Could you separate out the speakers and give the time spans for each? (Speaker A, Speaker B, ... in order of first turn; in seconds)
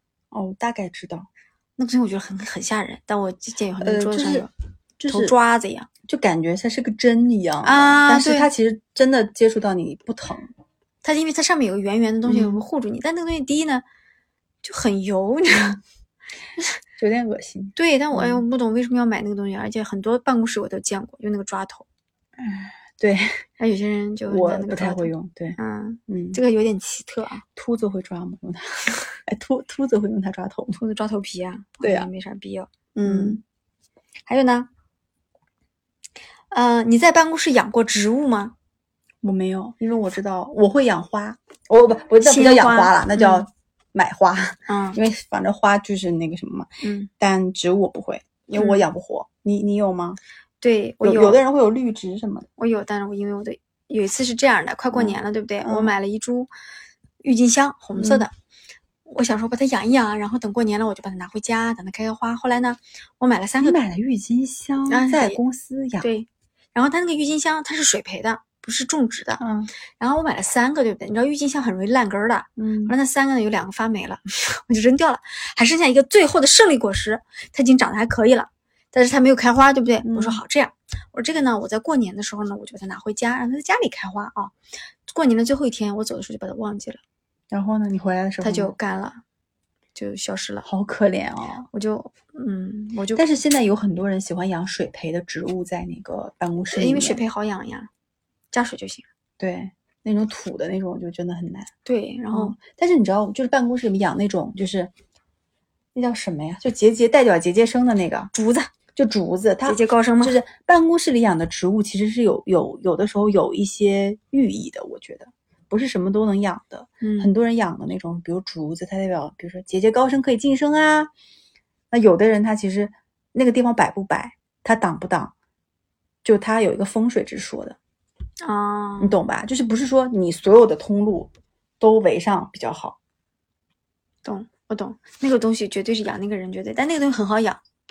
Speaker A: 0.3-1.3, 3.8-4.5, 5.0-5.3, 6.1-10.5, 12.3-12.6, 17.0-18.4, 22.4-23.4, 24.3-26.4, 27.6-30.8, 31.8-32.1, 33.0-33.4, 39.2-46.7, 47.2-50.2, 51.0-52.5, 54.9-55.9, 58.0-58.3, 63.6-66.1, 69.4-69.7, 72.6-73.0, 80.0-80.4, 87.5-88.7, 90.6-91.7, 93.2-97.2, 99.4-101.7, 102.3-104.9, 106.0-108.3, 109.0-121.1, 121.9-125.3, 126.2-127.8, 129.0-133.0
Speaker B: 1.8-4.5, 5.1-5.9, 7.6-8.5, 11.0-13.8, 14.6-15.8, 17.8-21.9, 23.6-27.4, 30.8-33.4, 34.3-34.7, 36.5-38.5, 42.2-43.5, 44.7-45.0, 46.8-47.1, 48.6-48.8, 50.6-51.4, 52.6-56.5, 57.2-58.3, 59.1-63.8, 64.9-65.4, 66.0-69.4, 70.0-84.5, 85.1-87.0, 88.4-89.2, 90.0-90.7, 91.7-93.2, 96.7-97.9, 98.5-99.1, 101.8-102.6, 108.3-108.7, 109.7-110.4, 117.0-117.3, 128.4-129.2, 134.2-137.6